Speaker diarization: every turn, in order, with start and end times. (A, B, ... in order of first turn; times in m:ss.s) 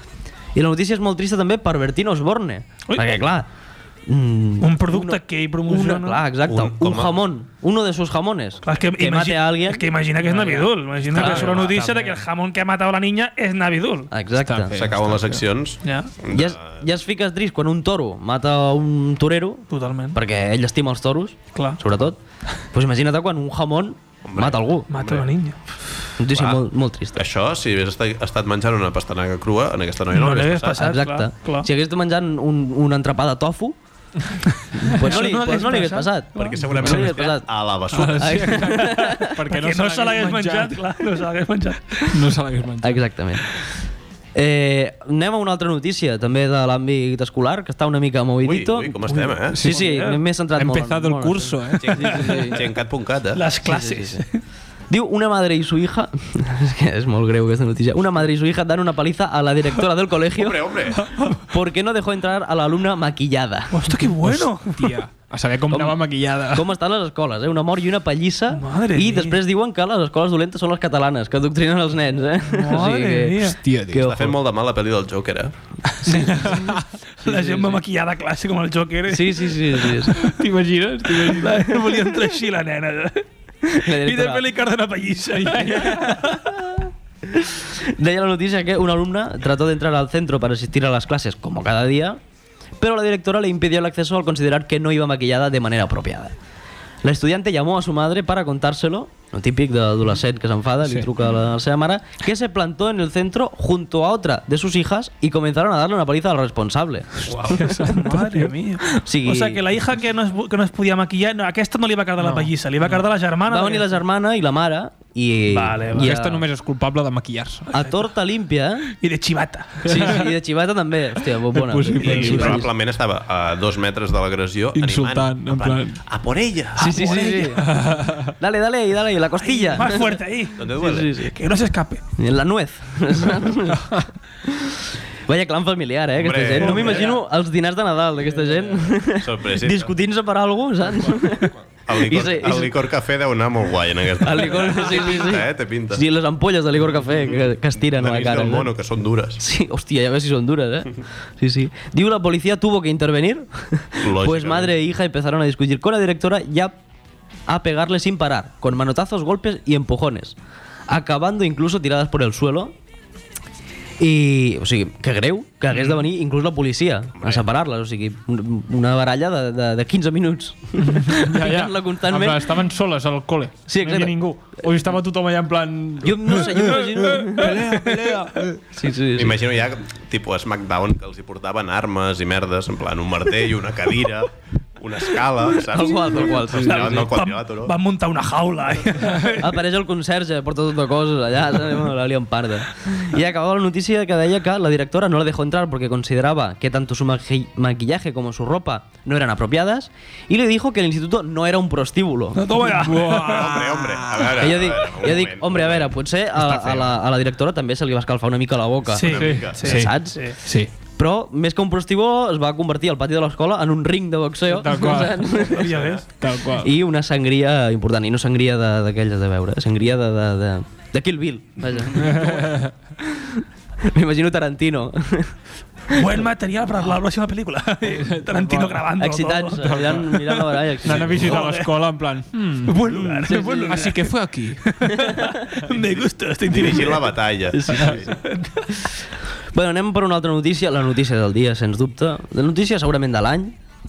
0:00.5-0:03.5 A
0:02.9-0:03.2 B
0:04.1-0:11.6 A
0:04.6-0:06.2 B
0:06.4-0:07.2 C
0:08.6-0:14.1 B
0:11.0-0:12.3 D
0:14.1-0:14.7 A
0:14.4-0:15.4 D
0:14.7-0:16.8 C
0:15.8-0:16.1 B
0:16.3-0:22.2 A
0:19.7-0:20.2 B
0:21.5-0:21.8 B
0:22.7-0:24.9 A
0:24.2-0:25.3 C
0:24.9-0:25.6 B
0:26.2-0:27.2 A
0:26.3-0:26.6 C
0:27.1-0:30.9 C
0:30.1-0:31.7 B
0:30.8-0:33.8 A
0:34.8-0:37.5 A
0:34.8-0:36.7 B
0:36.3-0:38.5 C
0:36.8-0:37.1 D
0:37.9-0:40.9 D
0:38.2-0:39.3 A
0:38.9-0:42.2 B
0:42.0-0:43.0 D
0:42.8-0:43.7 A
0:44.3-0:52.6 A
0:48.4-0:49.6 C
0:49.1-0:50.2 B
0:49.5-0:49.8 D
0:50.6-0:52.2 D
0:51.8-0:53.4 C
0:52.1-0:52.5 B
0:53.3-0:54.4 B
0:53.6-0:54.2 A
0:54.9-1:00.6 A
1:00.3-1:01.0 C
1:01.4-1:03.8 A
1:03.7-1:05.0 B
1:04.2-1:06.7 D
1:06.5-1:14.3 A
1:08.5-1:09.4 B
1:12.5-1:13.6 B
1:13.6-1:14.1 D
1:14.0-1:15.5 C
1:16.0-1:16.8 D
1:16.1-1:16.6 B
1:16.2-1:16.7 A
1:17.2-1:20.1 B
1:17.2-1:17.8 A
1:19.1-1:20.2 A
1:20.2-1:21.7 D
1:21.1-1:26.6 B
1:23.8-1:24.5 A
1:25.6-1:32.2 A
1:32.8-1:36.3 A
1:37.0-1:48.1 A
1:47.3-1:48.5 D
1:47.8-1:53.8 B
1:48.9-1:49.6 A
1:52.2-1:52.5 D
1:53.4-1:56.4 A
1:55.5-1:56.1 B
1:56.0-1:57.7 D
1:57.7-1:58.9 A
1:59.0-2:00.2 B
1:59.8-2:00.1 D
1:59.8-2:02.7 A
2:01.5-2:02.6 D
2:02.0-2:02.5 B
2:02.0-2:06.9 C
2:04.7-2:06.0 D
2:06.8-2:07.7 A
2:06.8-2:07.8 B
2:07.6-2:08.3 D
2:08.2-2:11.3 A
2:09.4-2:12.0 B
2:10.6-2:11.1 C
2:12.2-2:22.7 A
2:16.2-2:17.2 C
2:16.6-2:17.2 B
2:19.2-2:19.9 C
2:21.8-2:26.0 C
2:24.2-2:28.7 A
2:27.8-2:29.4 C
2:29.4-2:36.8 A
2:34.0-2:34.8 C
2:37.5-2:40.4 A
2:40.9-2:42.7 A
2:44.0-2:52.4 A
2:47.2-2:47.4 C
2:50.8-2:56.8 D
2:53.7-2:54.3 A
2:56.0-2:57.6 A
2:56.7-2:58.3 B
2:57.4-2:58.6 D
2:58.7-2:59.4 A
2:59.2-3:07.7 C
3:05.7-3:07.1 A
3:06.6-3:09.5 B
3:09.4-3:22.4 A
3:22.3-3:23.6 B
3:22.6-3:24.4 D
3:23.2-3:26.0 C
3:24.3-3:30.3 A
3:26.4-3:26.9 D
3:28.9-3:30.4 B
3:29.0-3:29.6 C
3:29.1-3:30.7 D
3:31.0-3:35.8 A
3:34.5-3:35.5 D
3:35.4-3:36.1 B
3:36.2-3:36.7 D
3:36.6-3:42.5 A
3:41.9-3:42.7 D
3:43.1-3:45.4 A
3:45.9-3:51.7 B
3:48.0-3:48.8 D
3:49.0-3:51.4 A
3:49.6-3:50.1 D
3:50.8-3:54.8 D
3:52.6-3:54.1 B
3:52.9-3:54.0 A
3:54.7-3:57.2 B
3:56.5-3:58.1 C
3:57.5-3:58.1 A
3:58.1-3:58.7 B
3:59.5-4:03.5 A